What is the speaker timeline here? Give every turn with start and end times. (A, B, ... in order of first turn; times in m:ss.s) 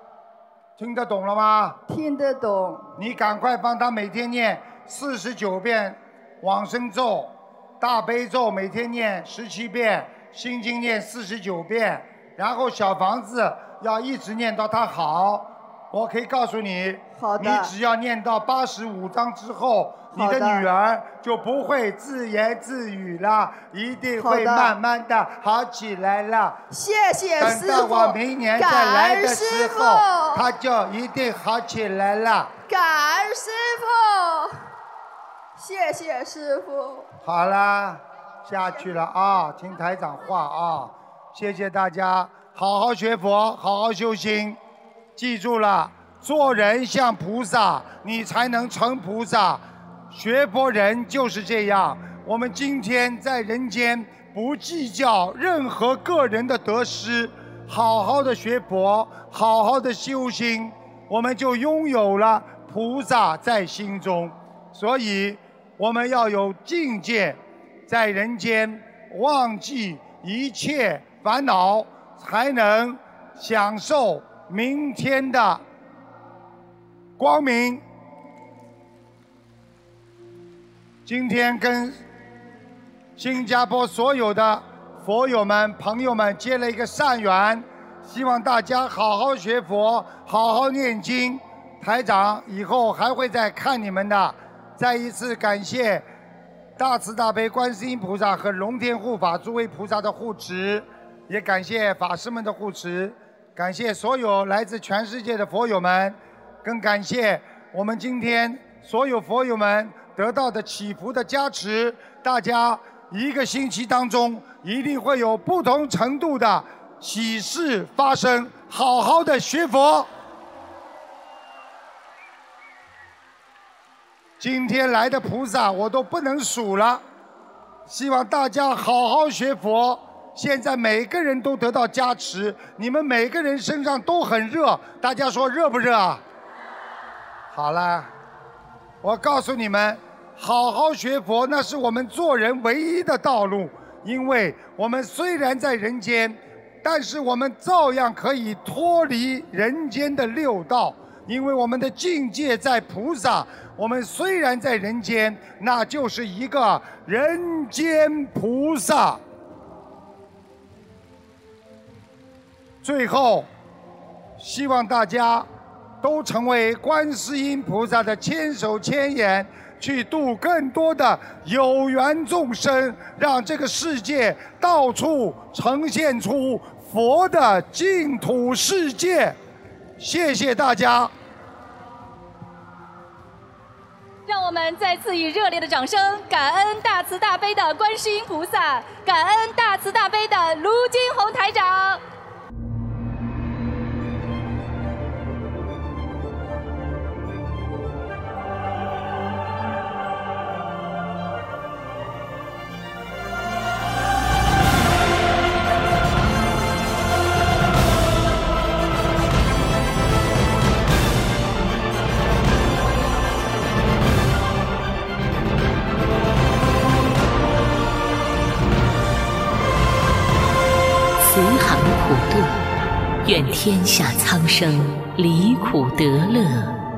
0:00.8-0:01.8 A
0:01.9-0:02.9 B
0:03.0-0:26.6 A
0:17.1-0:17.7 B
0:20.1-0:20.7 B
0:24.2-0:24.8 B
0:26.7-0:30.5 B
0:27.4-0:32.5 A
0:32.7-0:34.6 B
0:35.5-0:37.1 B
0:37.2-0:44.6 A
0:45.2-1:15.6 A
1:17.2-1:17.8 A
1:21.0-1:22.0 A
1:23.2-1:36.1 A
1:36.8-2:00.1 A
2:04.4-2:07.0 A
2:07.8-2:16.2 A
2:17.5-2:18.1 A
2:19.0-2:39.2 A
2:42.8-2:43.5 A
2:44.4-2:45.5 A
2:46.0-2:59.4 A
3:00.0-3:01.1 A
3:04.3-3:12.0 C
3:41.2-3:42.5 D
3:43.2-3:46.8 D